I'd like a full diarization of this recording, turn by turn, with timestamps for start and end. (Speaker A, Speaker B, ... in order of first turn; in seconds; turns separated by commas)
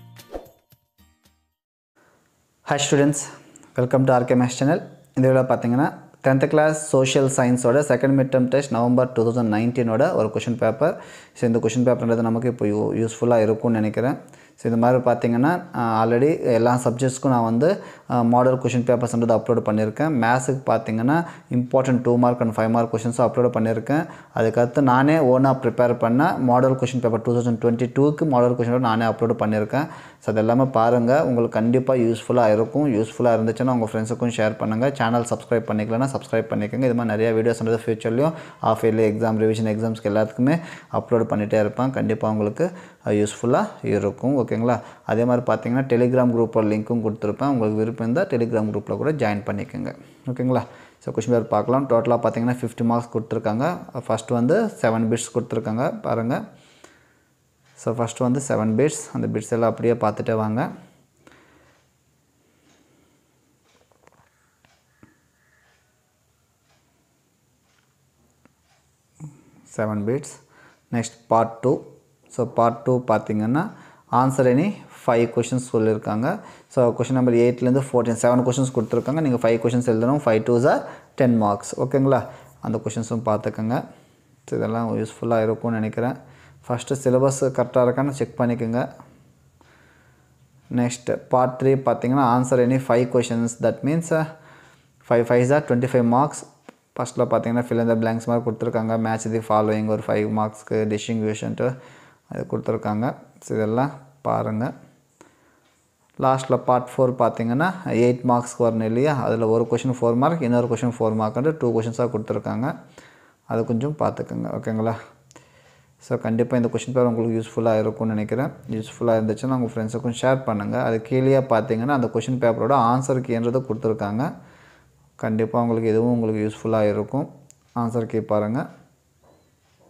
Speaker A: 2.7-56.4, Speaker A: 57.8-60.7, Speaker A: 69.7-70.4, Speaker A: 70.9-71.8, Speaker A: 72.3-83.8, Speaker A: 84.5-88.8, Speaker A: 90.7-94.2, Speaker A: 95.0-101.7, Speaker A: 102.3-104.7, Speaker A: 106.2-112.7, Speaker A: 113.5-115.0, Speaker A: 116.0-124.3, Speaker A: 125.2-128.6